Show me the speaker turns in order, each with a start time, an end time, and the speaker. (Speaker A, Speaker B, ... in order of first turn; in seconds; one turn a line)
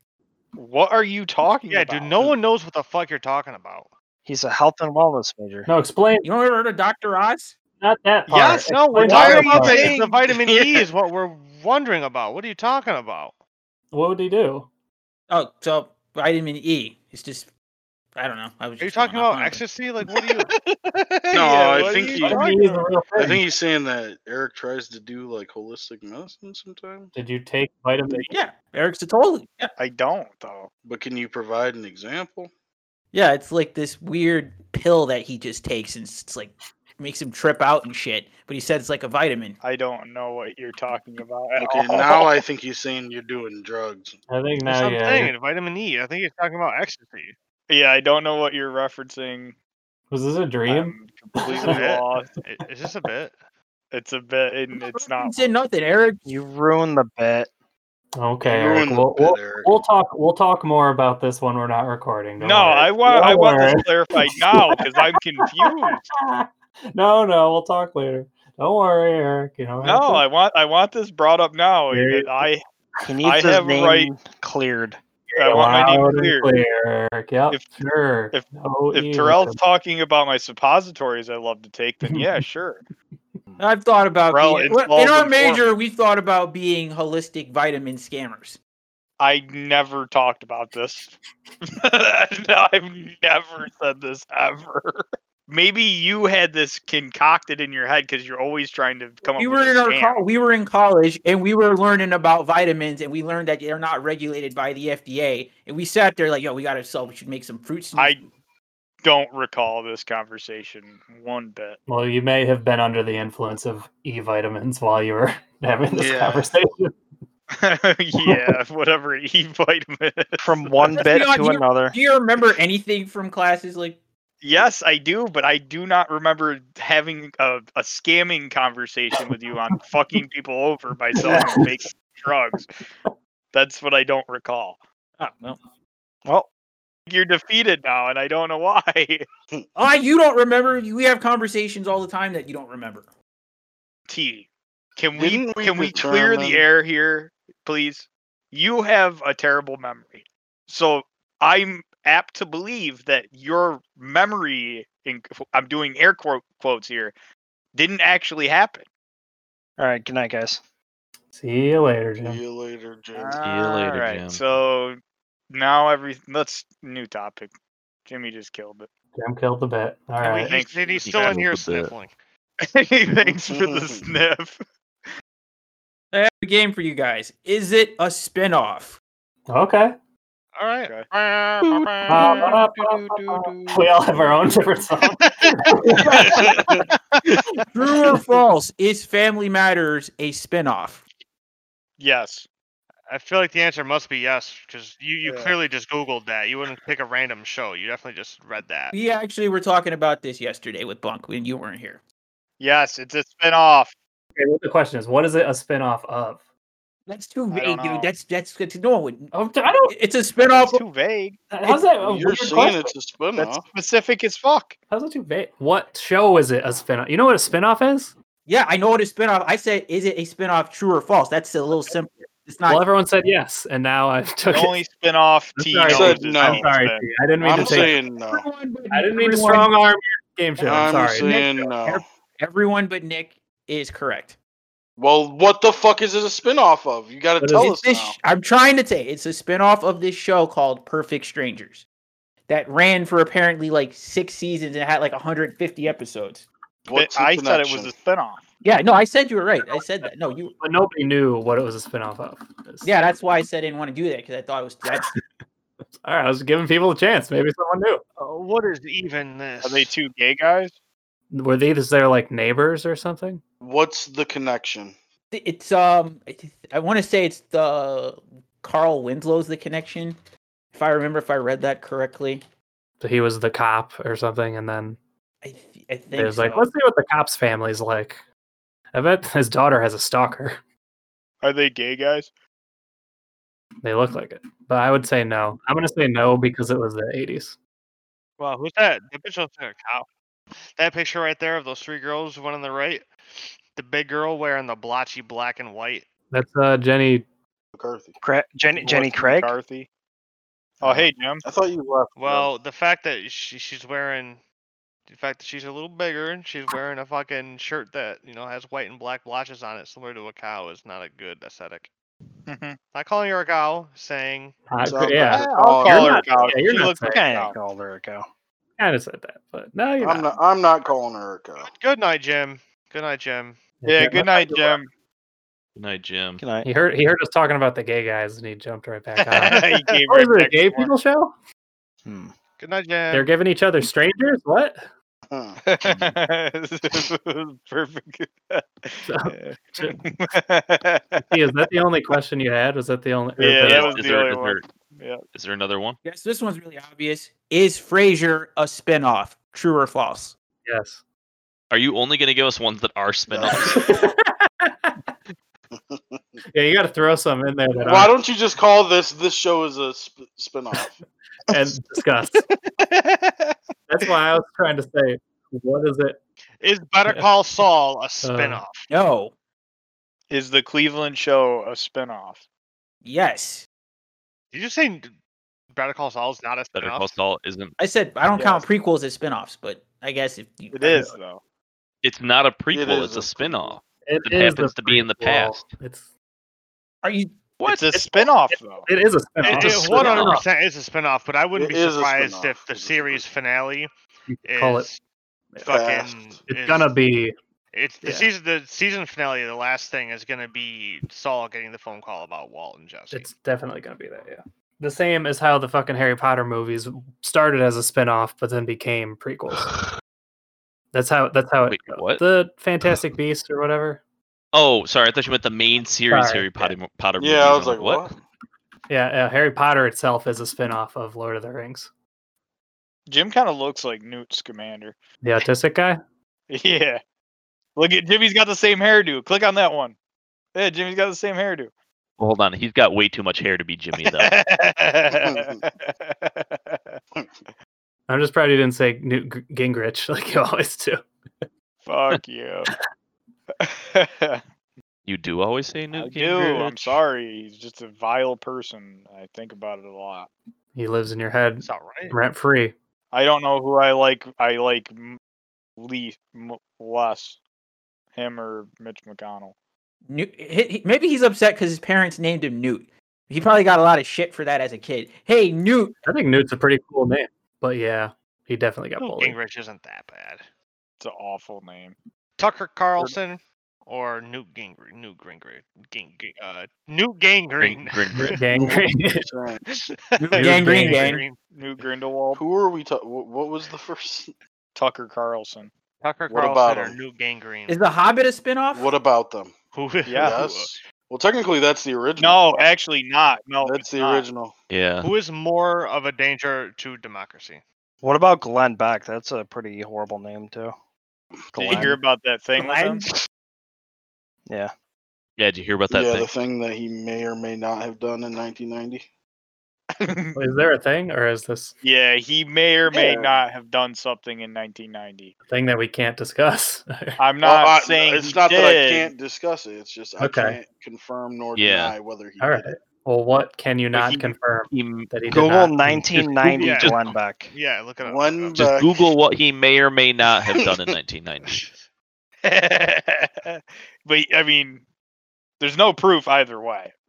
Speaker A: 0.6-2.4
Speaker B: 1.7-3.9
Speaker C: 4.2-5.7
Speaker D: 5.7-6.3
Speaker E: 6.2-7.5
Speaker D: 7.8-9.9
Speaker A: 8.3-10.0
Speaker B: 8.3-13.3
Speaker F: 9.7-10.9
Speaker D: 13.9-14.7
Speaker E: 15.3-17.5
Speaker E: 18.1-19.6
Speaker B: 18.8-22.6
Speaker F: 21.3-22.4
Speaker A: 21.4-22.8
Speaker D: 22.2-23.4
Speaker F: 23.1-27.1
Speaker D: 27.1-28.3
Speaker E: 28.3-29.7
Speaker A: 29.8-30.7
Speaker F: 30.8-32.5
Speaker E: 33.1-39.6
Speaker A: 39.6-42.3
Speaker F: 41.6-44.2
Speaker D: 44.3-45.3
Speaker B: 44.6-47.3
Speaker A: 47.7-49.5
Speaker D: 50.1-51.8
Speaker A: 50.7-52.3
Speaker B: 51.5-53.3
Speaker A: 53.9-55.3
Speaker E: 54.9-56.2
Speaker C: 56.2-57.5
Speaker D: 58.1-70.2
Speaker F: 58.4-59.8
Speaker A: 62.4-66.0
Speaker A: 69.8-72.6
Speaker D: 71.9-72.3
Speaker C: 73.0-75.0
Speaker A: 73.2-74.1
Speaker A: 75.3-76.5
Speaker D: 75.4-79.6
Speaker A: 78.3-82.8
Speaker D: 82.0-82.4
Speaker E: 83.6-88.6
Speaker A: 84.3-85.7
Speaker A: 89.2-100.2
Speaker E: 99.3-108.2
Speaker A: 107.9-108.2
Speaker A: 109.0-111.8
Speaker D: 111.9-116.9
Speaker F: 115.9-116.5
Speaker A: 117.5-121.0
Speaker D: 118.2-118.5
Speaker C: 120.4-121.9
Speaker E: 121.0-124.0
Speaker A: 124.4-132.7
Speaker D: 131.2-131.7
Speaker A: 133.5-134.8
Speaker E: 135.2-135.6
Speaker A: 137.1-139.2
Speaker E: 139.8-143.1
Speaker A: 144.1-157.1
Speaker F: 145.2-146.6
Speaker A: 157.7-158.8
Speaker C: 159.8-160.6
Speaker D: 161.3-162.4
Speaker F: 162.2-163.4
Speaker A: 163.1-165.0
Speaker G: 163.4-164.4
Speaker A: 165.5-167.5
Speaker A: 168.1-168.9
Speaker D: 169.1-170.6
Speaker B: 170.2-172.1
Speaker A: 170.3-171.3
Speaker G: 171.0-171.9
Speaker A: 172.6-174.6
Speaker F: 173.2-174.0
Speaker E: 176.1-179.0
Speaker D: 179.5-179.9
Speaker B: 180.6-183.2
Speaker A: 181.6-183.4
Speaker D: 182.1-186.4
Speaker B: 185.4-186.5
Speaker E: 187.7-191.0
Speaker A: 192.0-192.5
Speaker B: 193.1-198.9
Speaker A: 195.2-195.6
Speaker E: 198.9-202.0
Speaker A: 202.6-203.9
Speaker D: 204.3-206.4
Speaker E: 207.1-209.3
Speaker A: 207.5-208.1
Speaker D: 209.3-209.9
Speaker E: 209.9-210.8
Speaker A: 210.5-211.4
Speaker D: 211.5-212.9
Speaker F: 211.9-213.6
Speaker A: 213.4-214.8
Speaker D: 214.9-218.1
Speaker E: 218.5-222.8
Speaker D: 222.7-224.7
Speaker A: 224.5-227.1
Speaker D: 225.6-227.9
Speaker F: 225.9-226.7
Speaker F: 227.4-228.4
Speaker E: 227.7-229.7
Speaker D: 228.9-231.3
Speaker F: 230.6-232.0
Speaker E: 230.8-234.3
Speaker F: 235.0-238.2
Speaker D: 237.4-237.7
Speaker E: 237.5-241.8
Speaker E: 242.5-246.4
Speaker F: 246.8-247.9
Speaker A: 246.9-248.4
Speaker E: 248.6-250.5
Speaker D: 250.6-252.9
Speaker E: 252.8-255.1
Speaker D: 254.9-255.2
Speaker D: 256.0-258.0
Speaker B: 258.2-259.9
Speaker A: 259.6-260.8
Speaker D: 261.3-263.4
Speaker F: 263.6-264.9
Speaker E: 265.3-270.2
Speaker E: 270.7-272.4
Speaker D: 273.0-275.0
Speaker E: 275.4-276.7
Speaker D: 276.1-278.2
Speaker D: 278.9-280.6
Speaker A: 281.4-282.3
Speaker D: 283.8-287.6
Speaker B: 288.4-290.1
Speaker B: 290.8-296.1
Speaker D: 296.3-297.2
Speaker F: 297.7-298.2
Speaker C: 298.2-299.5
Speaker A: 298.7-299.9
Speaker A: 300.8-301.4
Speaker F: 301.4-302.5
Speaker B: 302.1-304.4
Speaker B: 305.1-311.9
Speaker A: 312.5-312.8
Speaker B: 312.9-314.6
Speaker D: 314.7-317.2
Speaker F: 314.8-316.5
Speaker A: 315.3-317.5
Speaker C: 317.0-318.2
Speaker D: 318.8-320.3
Speaker F: 320.0-321.7
Speaker B: 321.6-323.6
Speaker D: 323.8-324.5
Speaker A: 323.9-324.9
Speaker B: 324.4-324.7
Speaker G: 325.8-326.4
Speaker C: 326.4-326.7
Speaker D: 326.6-331.3
Speaker A: 329.2-330.9
Speaker C: 332.1-332.3
Speaker B: 332.6-333.3
Speaker D: 333.1-334.9
Speaker F: 335.3-335.6
Speaker A: 335.6-341.2
Speaker D: 339.0-339.9
Speaker D: 341.3-344.0
Speaker A: 343.4-345.2
Speaker G: 343.6-344.6
Speaker G: 345.3-346.0
Speaker E: 346.0-350.3
Speaker D: 350.6-351.0
Speaker G: 351.7-353.8
Speaker F: 353.3-353.9
Speaker D: 353.5-354.9
Speaker F: 355.7-356.4
Speaker D: 356.5-358.1
Speaker F: 357.8-360.9
Speaker D: 361.5-362.4
Speaker D: 363.9-366.2
Speaker B: 366.6-368.9
Speaker D: 368.2-368.6
Speaker E: 368.9-369.3
Speaker A: 370.3-372.4
Speaker E: 373.0-373.6
Speaker B: 374.5-375.1
Speaker B: 375.7-377.1
Speaker G: 376.7-377.7
Speaker E: 377.8-381.1
Speaker A: 378.4-378.6
Speaker A: 380.7-381.4
Speaker G: 382.0-385.7
Speaker F: 382.7-383.8
Speaker D: 384.1-386.1
Speaker E: 387.0-387.4
Speaker A: 387.6-388.9
Speaker D: 388.9-390.4
Speaker B: 389.4-393.9
Speaker F: 391.5-393.3
Speaker D: 394.3-394.9
Speaker B: 394.4-395.0
Speaker B: 395.6-396.9
Speaker F: 395.6-396.3
Speaker D: 396.5-397.3
Speaker B: 397.7-403.3
Speaker D: 403.1-409.7
Speaker D: 410.9-414.0
Speaker G: 411.7-412.2
Speaker G: 414.5-418.1
Speaker D: 416.1-416.7
Speaker F: 417.2-418.2
Speaker D: 418.9-421.9
Speaker A: 423.1-425.0
Speaker D: 425.2-426.0
Speaker A: 426.5-427.0
Speaker A: 427.8-429.9
Speaker A: 430.5-431.7
Speaker G: 432.2-434.3
Speaker A: 434.1-437.0
Speaker F: 435.1-435.6
Speaker D: 438.1-441.0
Speaker A: 441.8-442.7
Speaker A: 443.6-444.4
Speaker G: 445.1-447.0
Speaker A: 445.9-450.3
Speaker D: 450.7-452.7
Speaker B: 451.6-452.2
Speaker A: 453.1-455.2
Speaker A: 455.8-457.4
Speaker A: 458.1-459.5
Speaker E: 460.1-465.9
Speaker D: 466.0-469.4
Speaker B: 469.0-470.4
Speaker A: 471.0-471.9
Speaker B: 472.4-478.4
Speaker G: 477.6-478.3
Speaker D: 478.1-479.2
Speaker F: 478.5-479.6
Speaker B: 479.7-481.4
Speaker E: 480.2-481.2
Speaker D: 480.4-481.2
Speaker A: 481.5-482.4
Speaker F: 482.4-484.3
Speaker A: 484.8-485.7
Speaker B: 486.0-487.8
Speaker F: 486.3-487.0
Speaker E: 487.7-488.9
Speaker F: 488.7-489.5
Speaker B: 489.7-490.7
Speaker A: 490.1-490.4
Speaker F: 490.1-492.4
Speaker A: 492.2-494.3
Speaker F: 493.6-494.5
Speaker G: 494.7-495.1
Speaker B: 495.0-497.6
Speaker C: 498.0-500.7
Speaker F: 501.5-501.9
Speaker C: 501.5-502.0
Speaker A: 501.6-503.0
Speaker E: 502.6-503.0
Speaker C: 504.5-504.7
Speaker G: 505.4-506.3
Speaker F: 505.9-509.0
Speaker A: 510.0-510.4
Speaker D: 510.3-511.7
Speaker A: 511.8-515.3
Speaker F: 512.9-513.4
Speaker D: 515.5-517.2
Speaker A: 517.2-519.1
Speaker F: 517.4-522.7
Speaker D: 520.2-520.6
Speaker G: 521.6-522.0
Speaker D: 522.4-526.0
Speaker A: 523.9-524.3
Speaker G: 524.7-525.2
Speaker C: 525.3-527.5
Speaker G: 525.9-526.9
Speaker B: 526.5-528.6
Speaker F: 528.0-529.0
Speaker G: 528.5-531.6
Speaker F: 530.4-530.8
Speaker A: 532.4-534.8
Speaker A: 535.6-536.9